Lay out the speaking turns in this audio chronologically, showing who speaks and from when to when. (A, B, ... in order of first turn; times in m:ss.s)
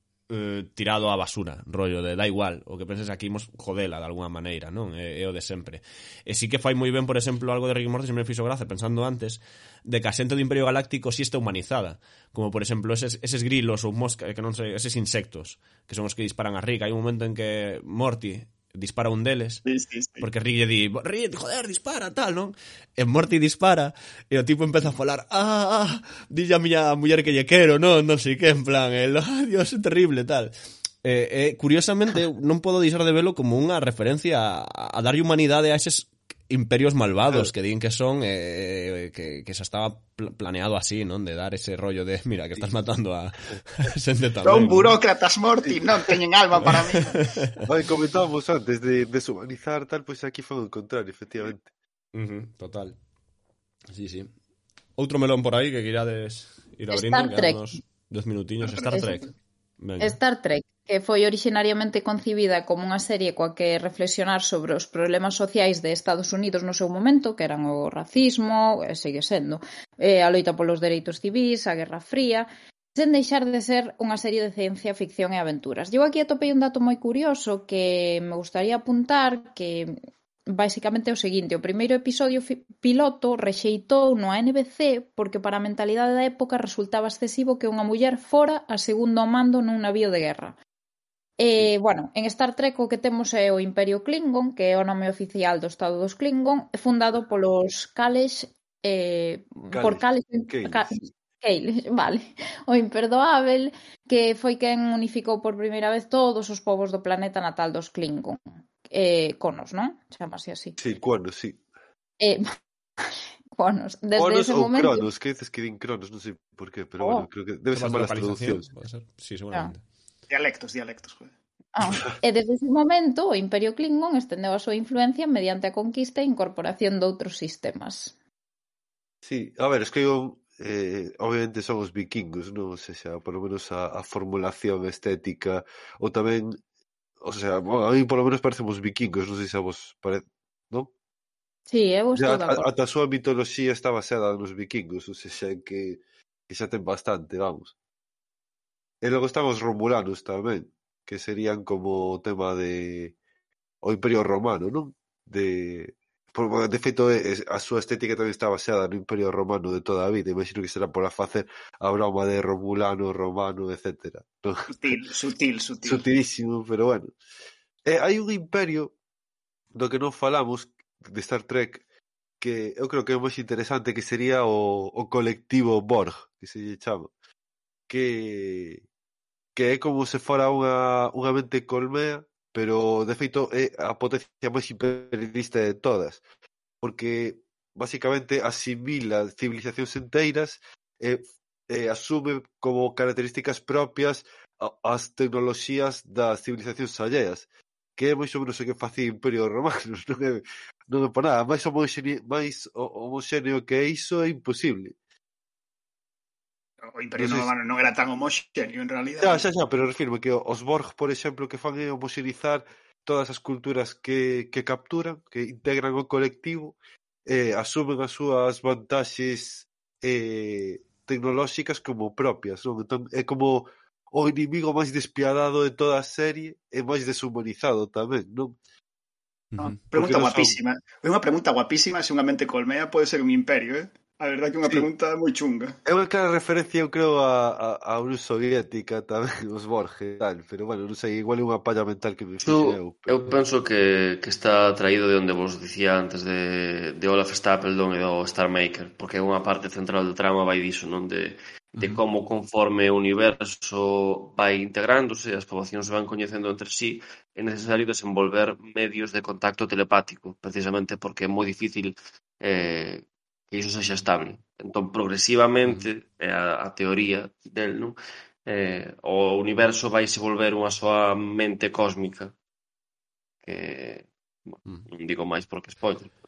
0:00.3-0:19.6 A
0:19.6-0:20.2 B
0:20.2-0:45.0 A
0:44.4-0:47.2 B
0:46.6-0:47.6 A
0:47.6-0:51.7 C
0:52.1-0:53.0 A
0:53.9-0:54.3 A
0:55.0-1:00.2 A
0:56.9-0:57.8 D
1:00.0-1:19.9 D
1:20.5-1:30.6 D
1:31.4-1:50.8 D
1:39.7-1:41.0 C
1:50.8-1:51.6 C
1:52.2-1:52.5 D
1:53.6-1:55.1 D
1:54.1-1:58.7 C
1:57.0-1:57.3 D
1:57.7-1:59.8 A
2:00.3-2:01.3 B
2:01.7-2:08.1 D
2:09.2-2:16.6 C
2:17.2-2:20.9 C
2:21.7-2:22.6 D
2:22.2-2:27.7 C
2:29.0-2:33.1 C
2:33.8-2:44.7 C
2:44.7-2:46.0 B
2:45.8-2:47.1 C
2:47.8-2:48.9 C
2:49.7-2:51.8 C
2:52.4-2:57.1 C
2:57.9-2:58.8 C
2:59.5-3:06.2 C
3:06.8-3:24.9 C
3:26.9-3:29.4 B
3:27.2-3:27.5 C
3:29.2-3:48.6 C
3:49.5-3:49.8 A
3:49.6-3:55.7 B
3:49.9-3:50.6 C
3:55.8-4:03.3 C
4:02.4-4:28.0 E
4:28.5-4:32.3 E
4:33.4-4:36.1 E